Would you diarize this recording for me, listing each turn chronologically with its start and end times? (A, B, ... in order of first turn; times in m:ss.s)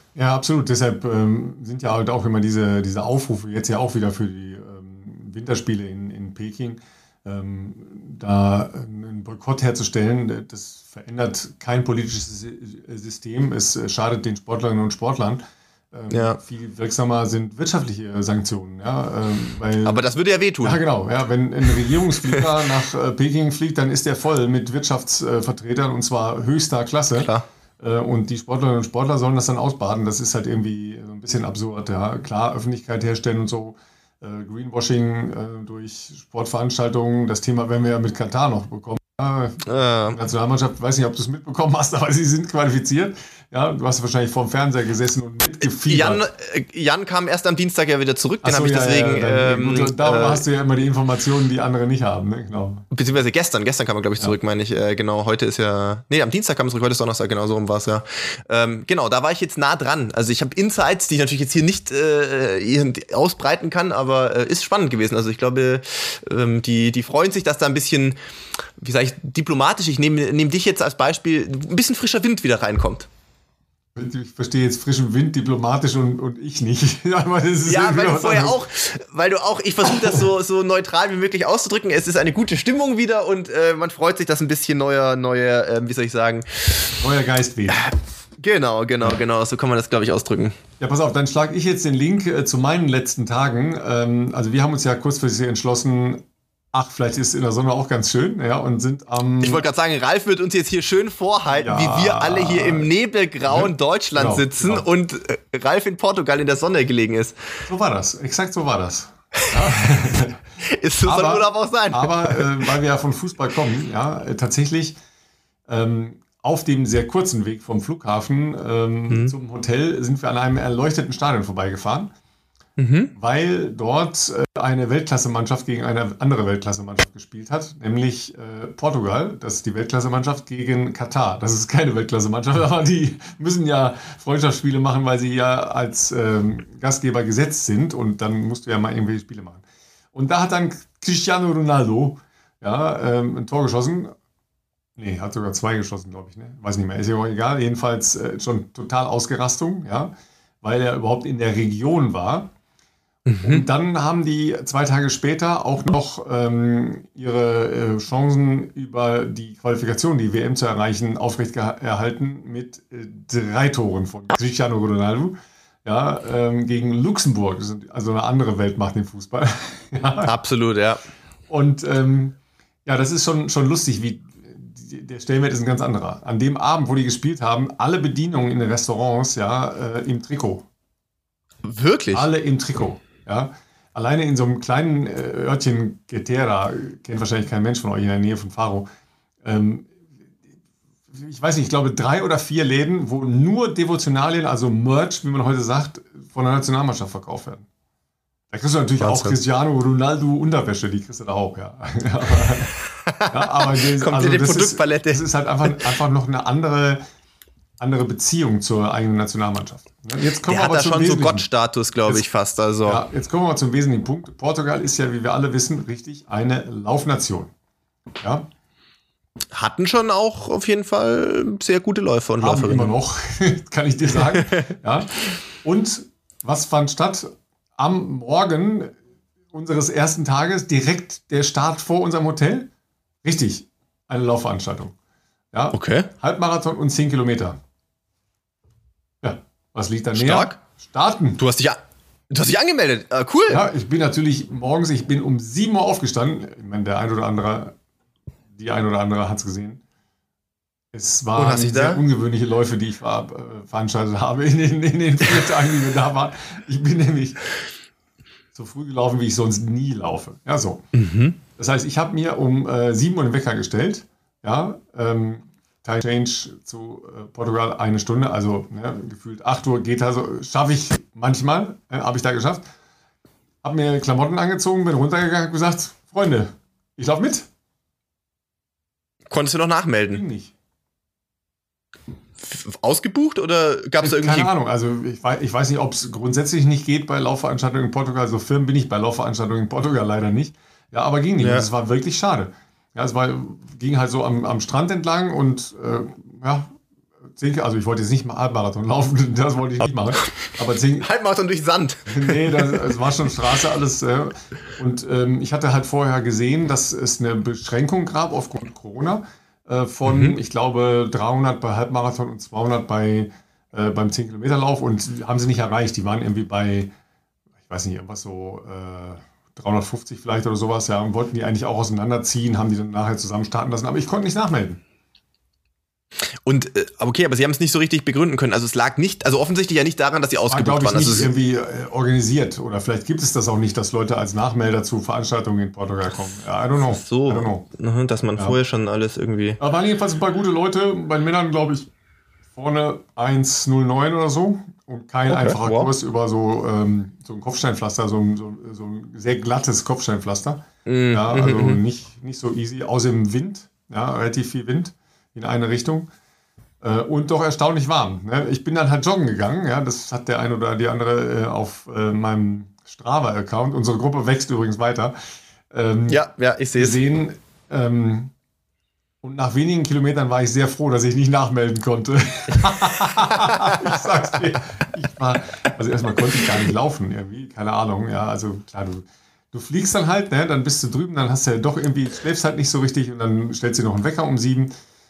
0:00.2-0:20.0 A
0:16.1-0:16.4 B
0:19.8-0:20.8 B
0:20.6-0:46.2 A
0:27.2-0:27.4 B
0:39.6-0:40.2 B
0:45.8-0:50.4 B
0:48.4-0:52.8 A
0:52.9-1:08.2 B
1:08.8-1:13.1 B
1:14.0-1:18.6 A
1:17.7-1:27.0 B
1:27.0-1:27.9 A
1:27.7-1:30.6 B
1:30.8-1:39.6 A
1:39.4-1:47.4 B
1:41.5-1:42.9 A
1:43.5-1:44.8 A
1:47.7-1:50.4 A
1:50.6-1:52.4 B
1:51.0-1:55.0 A
1:55.7-2:02.1 A
2:02.8-2:03.1 B
2:03.2-2:24.1 A
2:25.0-2:32.5 A
2:33.3-2:33.6 B
2:33.4-2:50.3 A
2:50.3-2:51.0 B
2:51.5-3:00.7 A
3:01.6-3:02.3 B
3:02.1-3:08.9 A
3:09.4-3:09.9 A
3:11.1-3:17.7 A
3:18.5-3:22.8 A
3:19.0-3:19.4 B
3:22.8-3:25.9 B
3:23.3-3:27.0 A
3:27.8-3:31.4 A
3:30.4-3:33.0 B
3:32.8-3:37.5 A
3:38.2-3:38.5 A
3:39.5-3:42.9 B
3:42.4-3:49.0 A
3:49.5-3:52.7 A
3:53.2-3:55.0 A
3:55.5-3:57.6 A
3:55.7-3:56.1 B
3:59.2-4:01.4 A
4:00.1-4:00.6 B
4:01.4-4:01.8 B
4:02.3-4:03.6 B
4:03.5-4:07.8 A
4:08.6-4:09.8 A
4:10.9-4:17.5 A
4:11.4-4:12.0 B
4:18.5-4:20.8 A
4:20.9-4:21.4 B
4:21.6-4:32.7 A
4:33.6-4:37.5 A
4:39.3-4:40.2 B
4:40.1-4:40.5 A
4:42.4-4:44.5 B
4:44.0-4:56.8 A
4:51.4-4:51.7 B
4:57.4-5:01.1 A
5:01.0-5:02.8 B
5:02.1-5:16.9 A
5:10.1-5:10.3 B
5:17.7-5:24.8 A
5:26.4-5:31.3 B
5:30.5-5:37.6 A
5:36.8-5:39.6 B
5:39.6-5:41.9 A
5:42.5-5:56.1 A
5:45.3-5:45.9 B
5:50.9-5:51.8 B
5:56.8-6:05.2 A
6:05.7-6:06.2 A
6:06.1-6:07.0 B
6:06.8-6:08.3 A
6:09.2-6:24.7 A